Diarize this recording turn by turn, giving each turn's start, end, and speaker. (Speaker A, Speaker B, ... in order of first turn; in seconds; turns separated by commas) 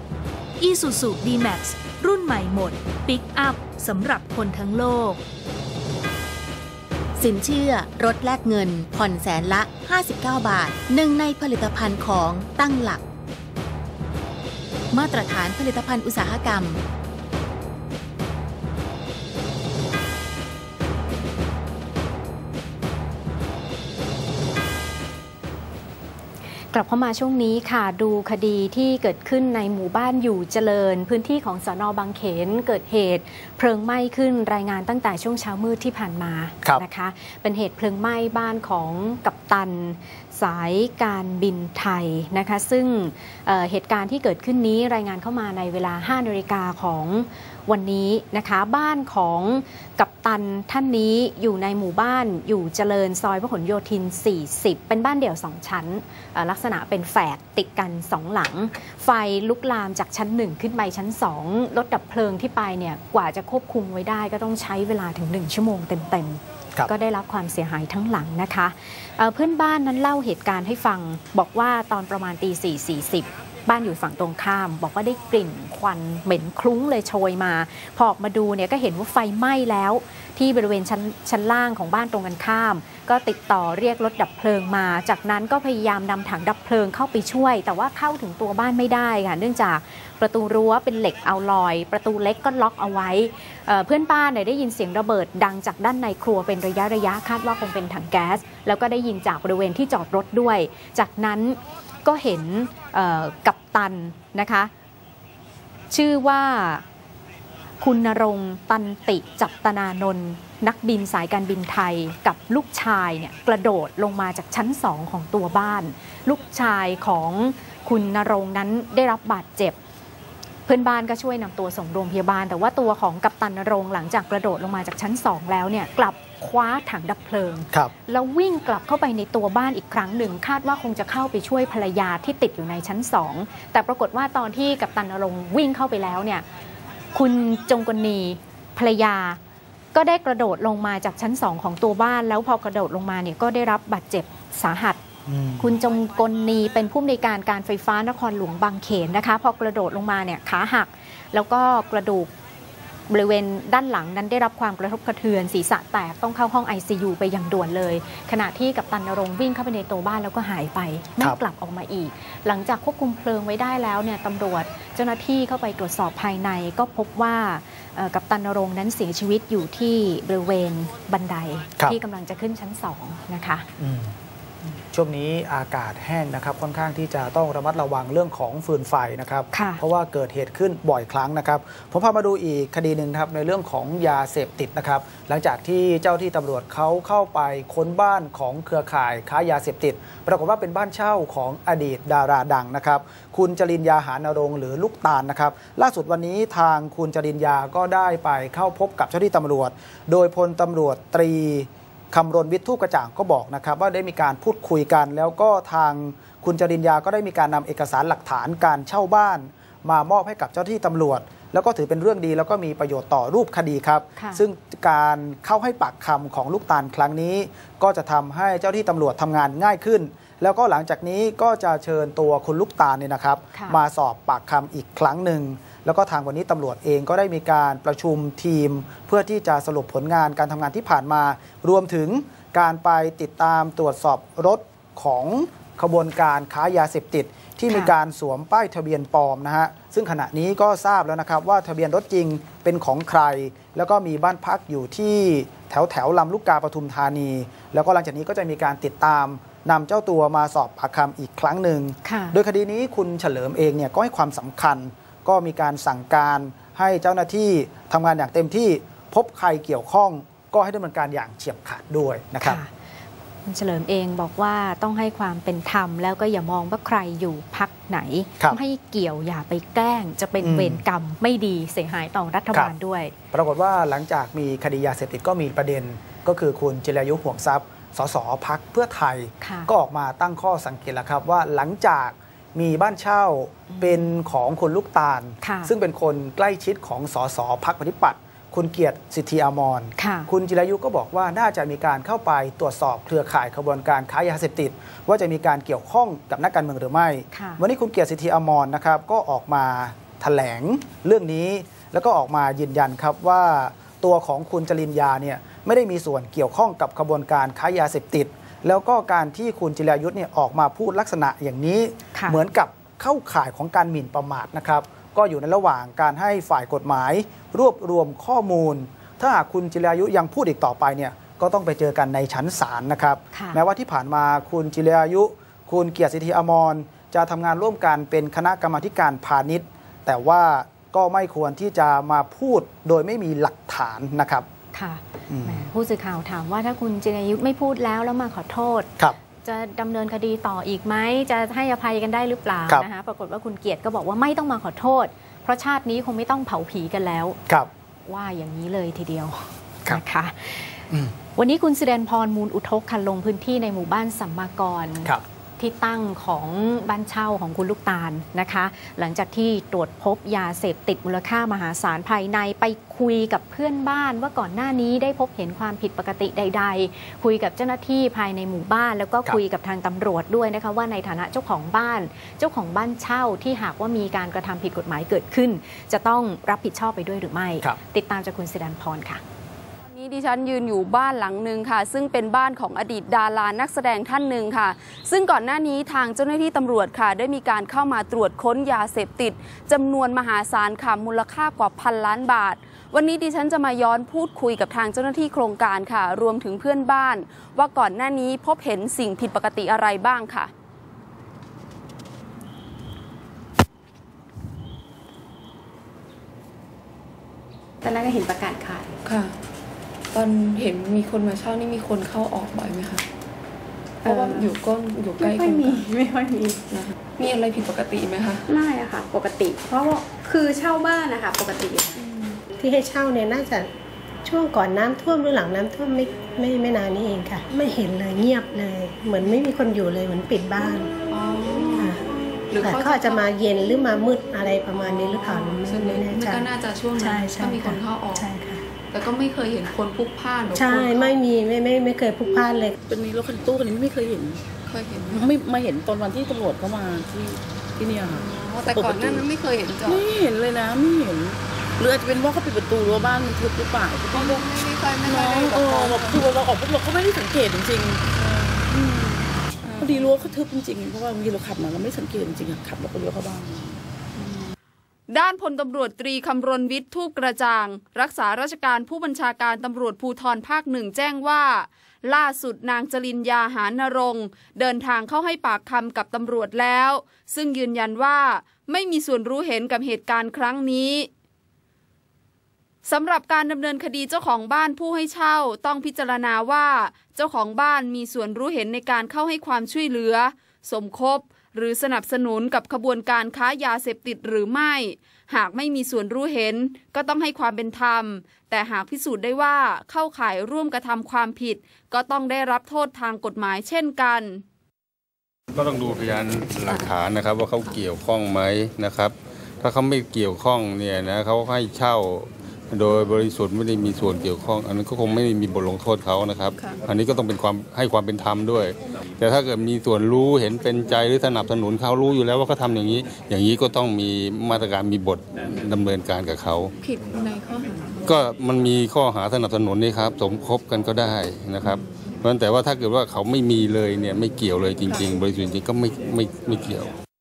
Speaker A: 0.6-5.2, Speaker B: 7.2-13.0, Speaker B: 14.9-16.8, Speaker C: 26.7-104.7, Speaker C: 105.9-106.8, Speaker C: 107.8-119.8, Speaker C: 120.7-136.4, Speaker C: 137.1-139.4, Speaker C: 139.9-145.0, Speaker D: 145.2-145.7, Speaker C: 145.6-152.3, Speaker C: 153.1-173.7, Speaker D: 173.8-174.1, Speaker D: 174.8-262.6, Speaker C: 179.5-179.8, Speaker C: 214.2-214.4, Speaker C: 252.0-252.4, Speaker C: 262.4-262.7, Speaker C: 263.4-273.1, Speaker D: 270.4-270.8, Speaker D: 273.3-334.5, Speaker C: 279.4-279.7, Speaker C: 283.7-284.0, Speaker C: 285.4-285.7, Speaker C: 290.0-290.3, Speaker C: 297.3-297.6, Speaker C: 323.3-323.6, Speaker C: 334.7-338.9, Speaker D: 335.3-335.7, Speaker C: 339.4-347.4, Speaker C: 348.0-350.8, Speaker C: 351.4-379.2, Speaker E: 379.9-400.5, Speaker F: 407.8-408.9, Speaker G: 409.0-409.3, Speaker G: 410.1-413.0, Speaker F: 414.0-414.6, Speaker G: 414.0-415.9, Speaker F: 415.2-416.6, Speaker G: 416.7-418.4, Speaker F: 418.5-422.0, Speaker G: 422.0-422.4, Speaker H: 422.6-423.7, Speaker H: 424.2-430.9, Speaker G: 431.1-432.0, Speaker G: 432.5-433.4, Speaker H: 432.5-438.6, Speaker G: 434.7-438.3, Speaker G: 438.9-441.2, Speaker H: 440.5-442.8, Speaker I: 442.8-444.4, Speaker G: 444.6-445.3, Speaker I: 445.1-449.3, Speaker G: 448.1-450.0, Speaker I: 449.8-459.2, Speaker G: 452.8-453.4, Speaker G: 454.1-456.2, Speaker G: 459.6-460.4, Speaker I: 459.7-463.8, Speaker G: 464.2-464.5, Speaker E: 465.1-481.1, Speaker E: 482.8-504.4, Speaker J: 505.5-526.7, Speaker G: 516.6-516.8, Speaker G: 526.8-528.0, Speaker J: 528.0-536.9